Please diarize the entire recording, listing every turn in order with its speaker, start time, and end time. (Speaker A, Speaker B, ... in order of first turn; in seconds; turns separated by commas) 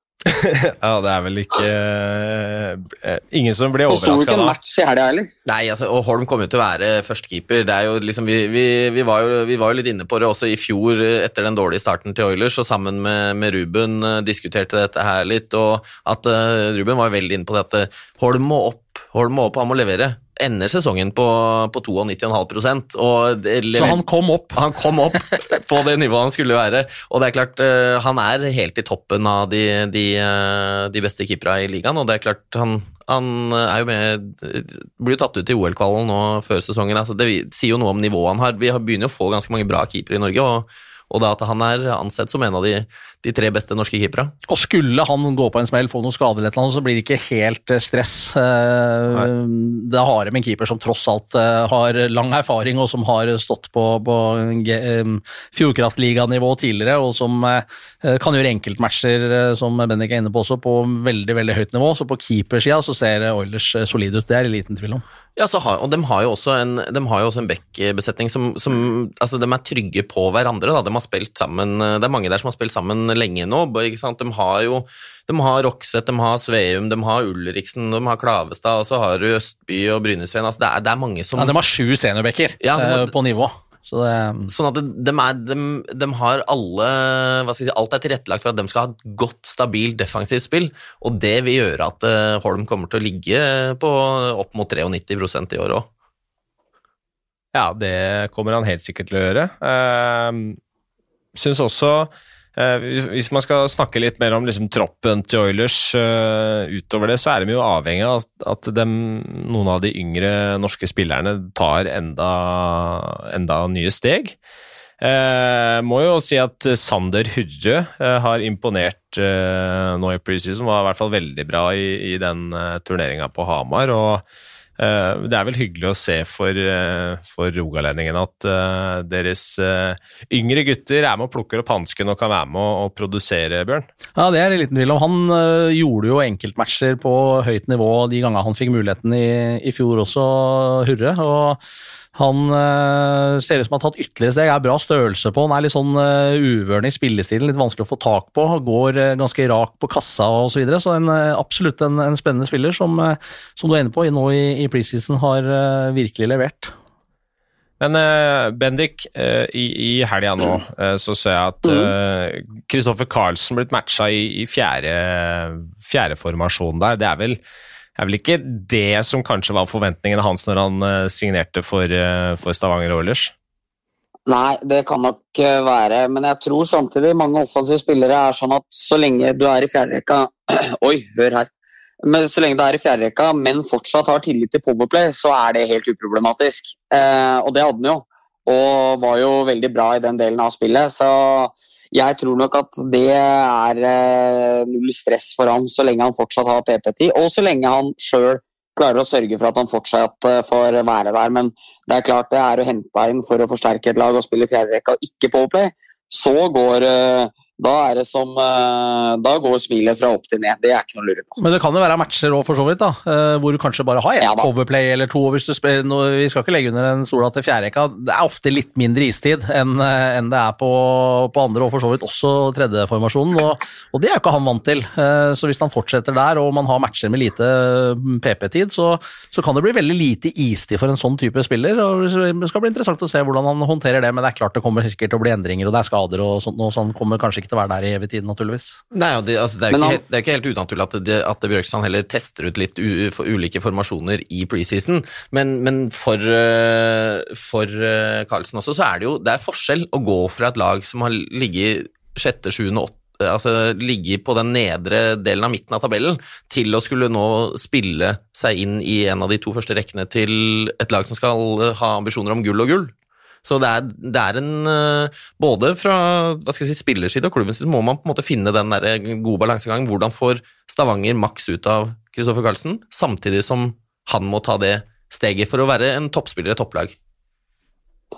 Speaker A: 0.3-4.5, Speaker B: 3.9-5.3, Speaker C: 5.4-24.0, Speaker D: 23.7-24.6, Speaker C: 24.5-44.3, Speaker D: 44.5-65.0, Speaker C: 65.3-81.5, Speaker D: 81.3-84.5, Speaker C: 82.6-83.1, Speaker C: 84.5-95.9, Speaker A: 97.5-100.6, Speaker A: 101.3-114.3, Speaker A: 115.0-124.2, Speaker A: 124.8-133.9, Speaker D: 134.2-141.6, Speaker D: 142.1-156.7, Speaker A: 157.8-167.4, Speaker A: 167.9-173.3, Speaker B: 174.3-181.5, Speaker B: 182.0-211.4, Speaker D: 211.4-238.8, Speaker B: 214.2-214.5, Speaker C: 238.9-262.9, Speaker B: 239.7-240.0, Speaker C: 263.4-276.9